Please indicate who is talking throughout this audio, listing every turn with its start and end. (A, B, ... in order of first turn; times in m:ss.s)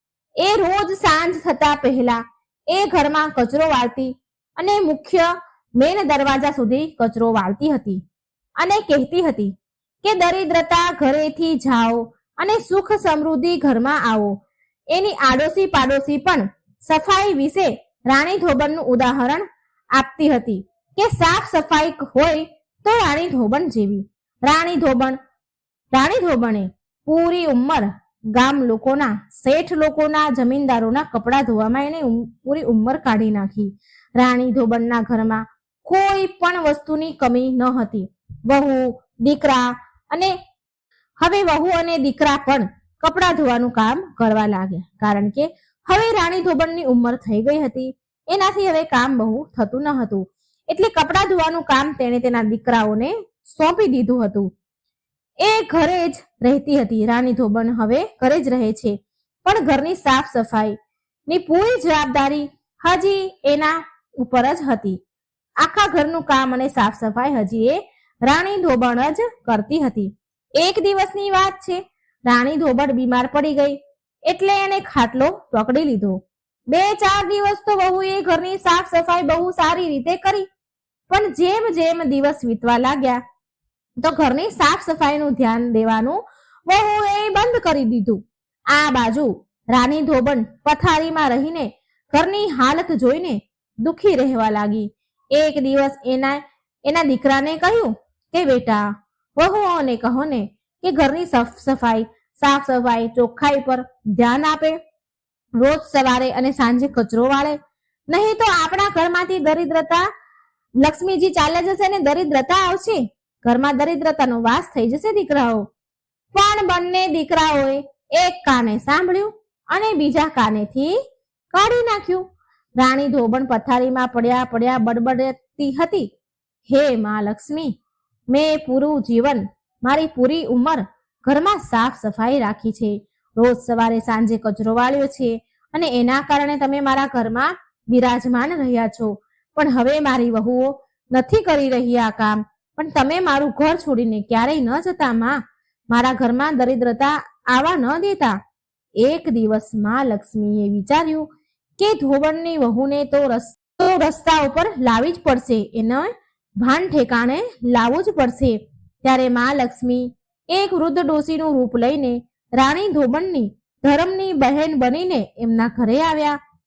0:00.4-0:08.0 A
0:08.6-0:14.3 A
0:14.9-0:19.4 A
0:19.9-0:25.2 A
0:25.9-0:40.3 A
0:41.2-0:54.5 A
0:55.4-1:00.7 A
1:01.3-1:05.0 A
1:05.6-1:16.2 A
1:16.7-1:20.4 A
1:21.1-1:23.2 A
1:24.0-1:28.2 A
1:28.7-1:38.8 A
1:39.4-1:44.8 A
1:45.6-1:47.6 A
1:48.1-1:50.0 A
1:50.8-1:55.6 A
1:56.3-2:00.9 A
2:01.5-2:02.2 A
2:02.8-2:06.1 A
2:06.7-2:07.7 A
2:08.3-2:25.4 A
2:25.9-2:28.4 A
2:29.0-2:31.3 A
2:31.8-2:36.1 A
2:36.6-2:46.4 A